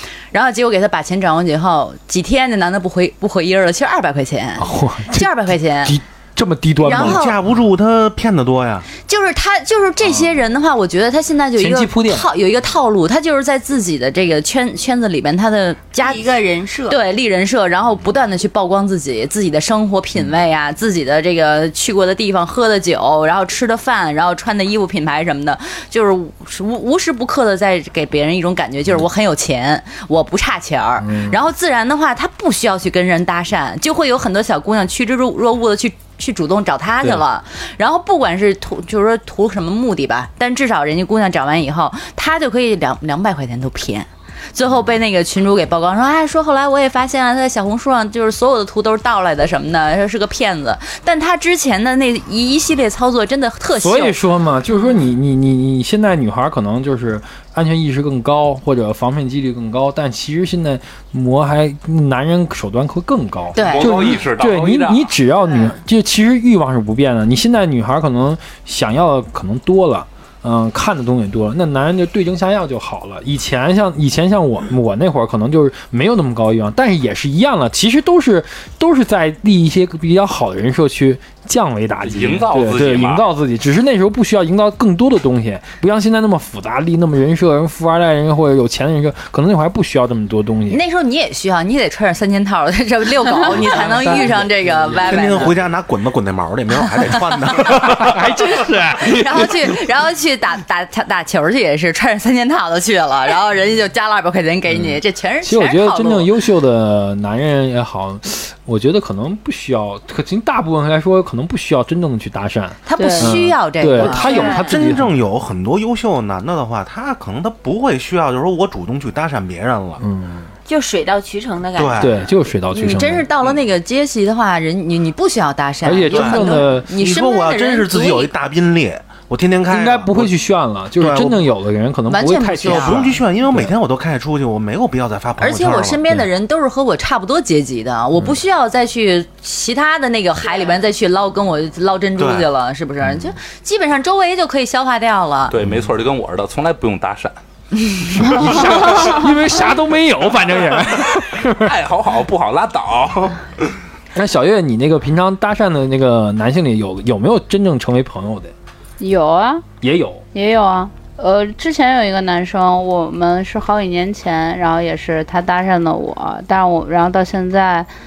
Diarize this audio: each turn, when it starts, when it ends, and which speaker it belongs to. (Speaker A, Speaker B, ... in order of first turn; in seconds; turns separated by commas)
Speaker A: 0.3-6.0, Speaker B: 4.6-7.2, Speaker A: 6.8-7.4, Speaker C: 6.9-8.9, Speaker A: 9.1-16.3, Speaker B: 11.6-12.3, Speaker D: 16.0-17.0, Speaker A: 16.9-54.2, Speaker B: 31.0-31.4, Speaker B: 53.8-90.8, Speaker A: 63.5-64.2, Speaker E: 63.6-65.1, Speaker E: 82.0-83.3, Speaker A: 90.7-95.6, Speaker B: 93.5-95.5, Speaker C: 95.0-98.3, Speaker A: 97.5-97.9, Speaker B: 97.7-99.5, Speaker A: 98.5-106.3, Speaker B: 104.7-115.1, Speaker A: 112.9-114.7, Speaker F: 113.0-113.4, Speaker D: 114.0-114.8, Speaker C: 114.7-120.0, Speaker B: 120.0-120.5, Speaker D: 120.7-122.3, Speaker C: 121.8-122.1, Speaker B: 122.0-123.3, Speaker A: 122.7-128.3, Speaker B: 125.8-126.9, Speaker C: 126.1-130.3, Speaker B: 129.7-133.7, Speaker C: 131.0-131.5, Speaker A: 132.1-133.2, Speaker C: 132.6-136.0, Speaker A: 135.4-145.5, Speaker C: 142.2-142.5, Speaker E: 145.5-147.4, Speaker B: 148.0-151.8, Speaker F: 148.3-148.9, Speaker E: 148.5-149.3, Speaker E: 150.9-153.5, Speaker B: 154.2-158.5, Speaker F: 159.0-159.7, Speaker B: 159.8-160.2, Speaker F: 160.3-167.9